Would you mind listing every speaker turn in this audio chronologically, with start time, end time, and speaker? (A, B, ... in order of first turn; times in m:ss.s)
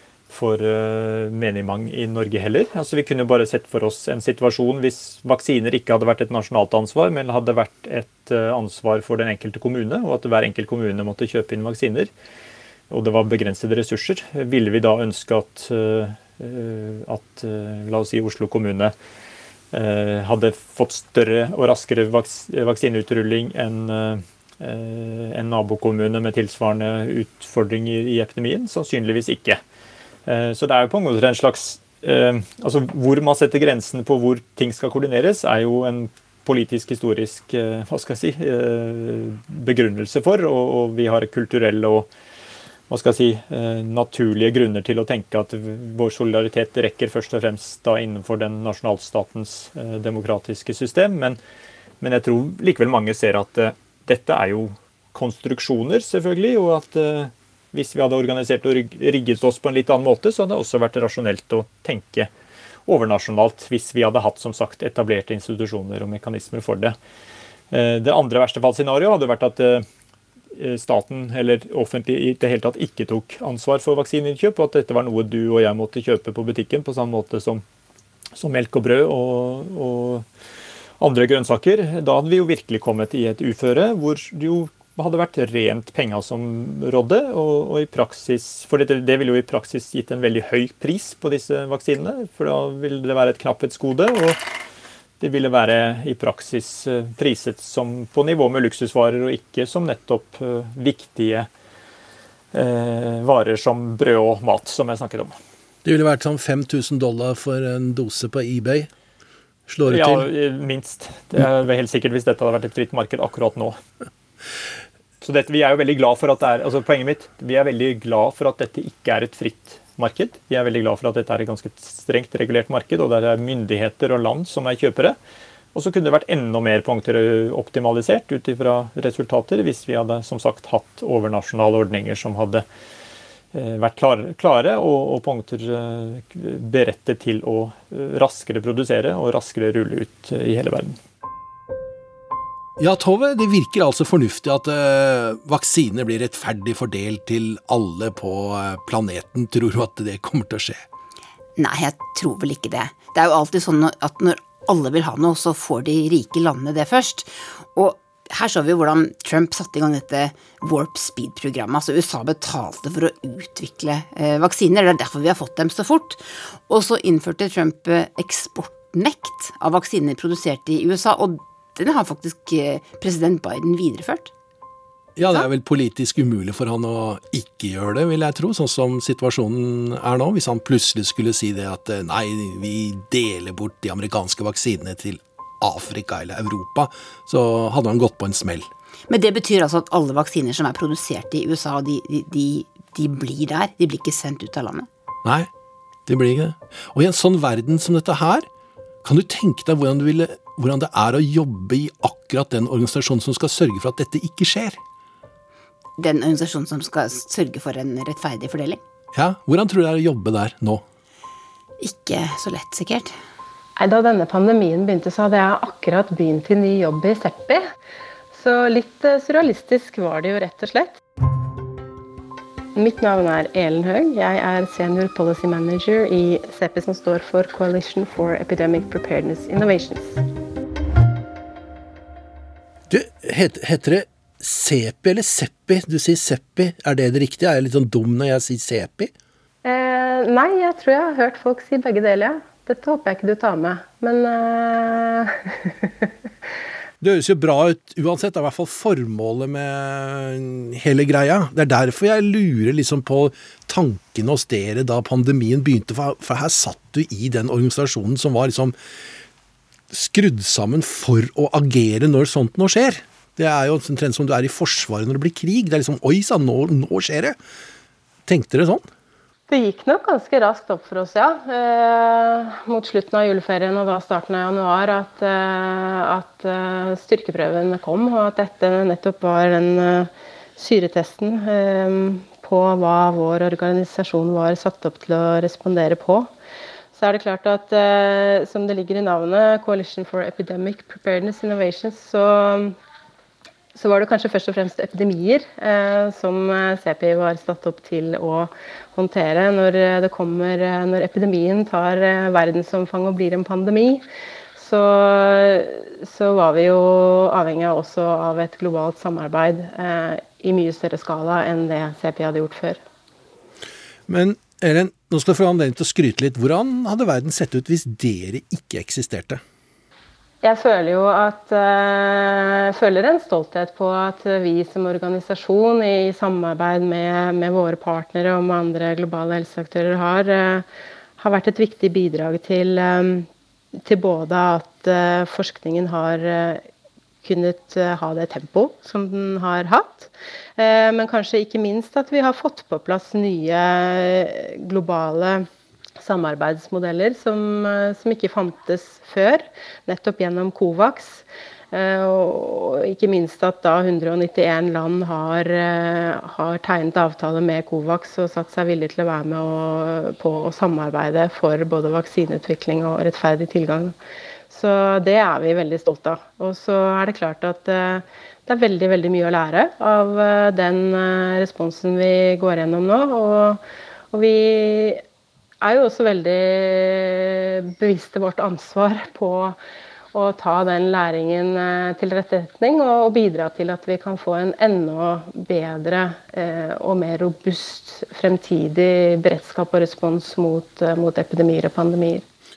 0:00.3-0:12.1 A
0:12.9-0:18.9 A
0:19.7-0:29.6 A
0:30.2-0:42.1 A
0:42.9-0:51.4 A
0:52.0-1:02.3 A
1:02.8-1:07.0 A
1:07.7-1:09.8 A
1:10.5-1:17.6 A
1:18.4-1:20.2 A
1:21.0-1:34.4 A
1:35.2-1:41.5 A
1:42.5-1:45.4 A
1:45.8-1:48.9 B
1:49.7-1:50.3 B
1:49.9-1:53.8 A
1:55.2-2:05.2 A
2:05.7-2:12.6 A
2:13.5-2:21.0 A
2:22.8-2:30.8 B
2:31.6-2:54.3 C
2:55.2-3:08.7 B
3:09.1-3:14.9 C
3:15.2-3:15.5 B
3:16.0-3:18.5 B
3:19.0-3:24.8 B
3:26.0-3:28.8 C
3:29.1-3:30.8 B
3:31.8-3:33.1 C
3:33.8-3:37.6 D
3:38.3-3:41.0 D
3:42.7-3:50.2 D
3:52.9-3:59.1 B
3:59.6-4:06.0 D
4:07.0-4:18.7 B
4:19.9-4:27.4 B
4:28.3-4:28.9 B
4:29.5-4:46.3 D
4:46.9-4:52.8 D
4:53.7-5:04.0 D
5:04.6-5:12.8 D
5:14.1-5:19.4 B
5:20.4-5:30.6 D
5:31.2-5:33.3 D
5:33.8-5:36.6 D
5:37.2-5:45.5 D
5:46.0-6:04.0 D
6:04.5-6:15.0 D
6:15.6-6:19.6 D
6:20.1-6:32.2 D